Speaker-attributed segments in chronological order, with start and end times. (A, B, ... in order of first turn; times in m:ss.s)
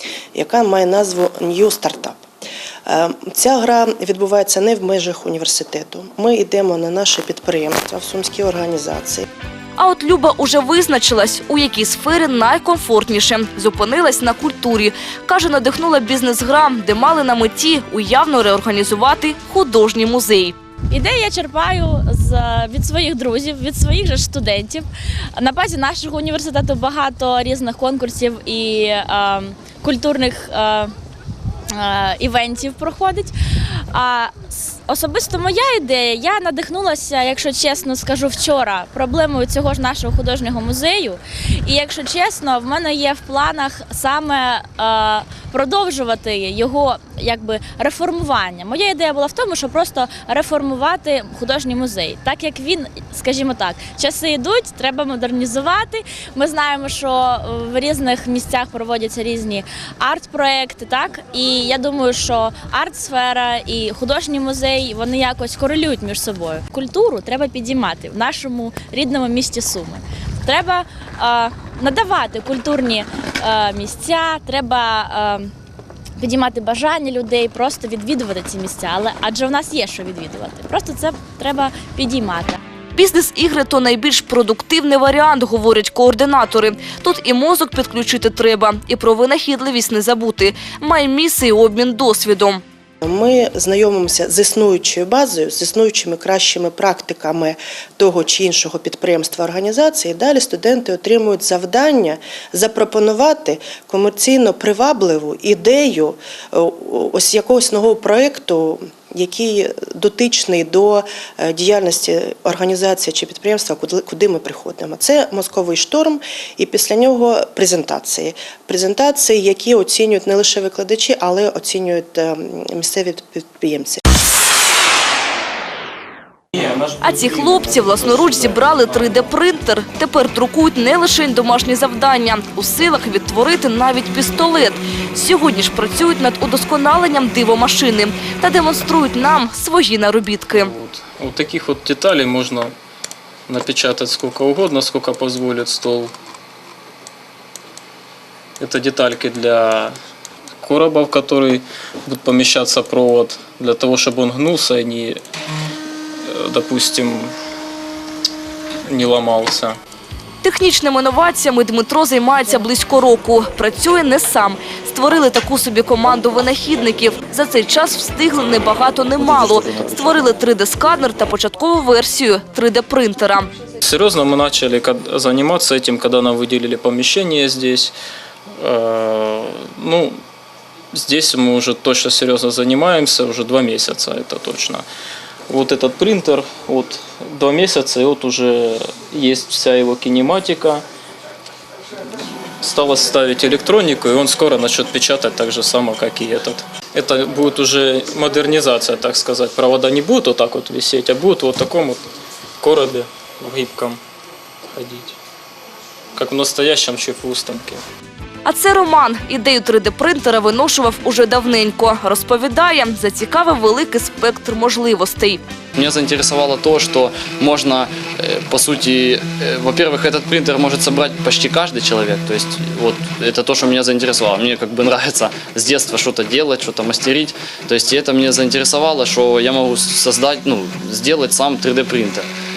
0:00.3-0:02.2 A
0:02.9-0:09.3 A
0:09.8-0:20.6 B
0:20.9-0:30.9 C
0:31.7-1:15.5 C
1:16.2-1:22.6 C
1:23.0-1:32.6 B
1:33.0-2:04.0 A
2:07.0-2:20.7 B
2:20.5-2:22.7 D
2:23.5-2:26.1 D
2:28.6-2:29.9 D
2:30.6-2:35.2 D
2:36.3-2:37.3 D
2:38.9-2:39.8 D
2:40.4-2:53.5 B
2:53.8-2:57.9 D
2:58.6-3:00.2 D
3:01.0-3:04.8 D
3:05.5-3:10.8 D
3:12.6-3:24.0 D
3:24.7-3:25.2 D
3:26.2-3:27.8 D
3:28.4-3:35.4 B
3:35.8-3:52.3 E